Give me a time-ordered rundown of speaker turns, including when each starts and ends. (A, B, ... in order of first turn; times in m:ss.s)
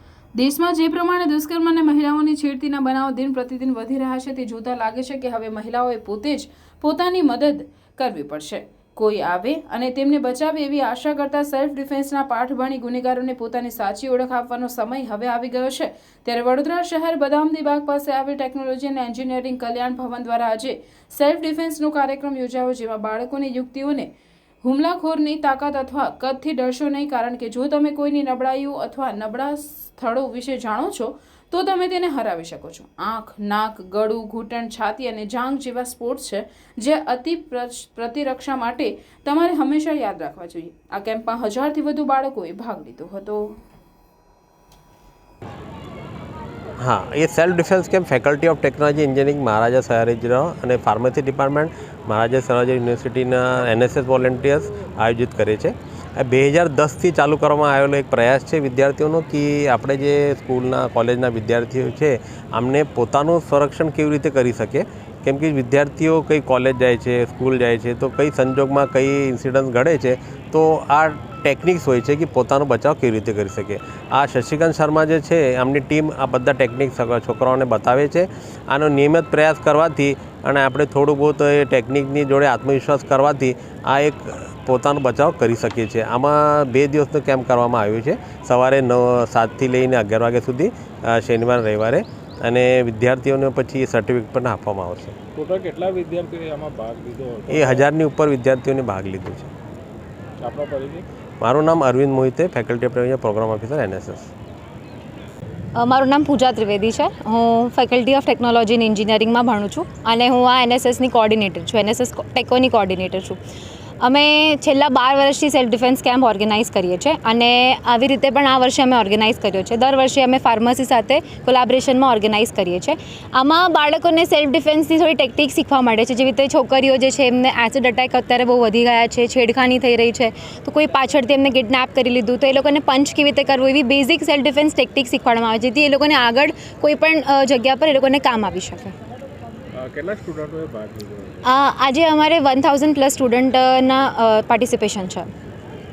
0:00.4-0:24.1 A
0:24.6-0:43.4 A
0:46.8-1:35.2 B
1:35.4-1:37.9 C
1:37.5-1:39.5 B
1:40.4-1:41.0 C
1:41.4-1:44.3 B
1:45.8-1:53.4 D
1:54.0-2:18.9 D
2:19.7-2:21.4 C
2:21.4-2:25.3 D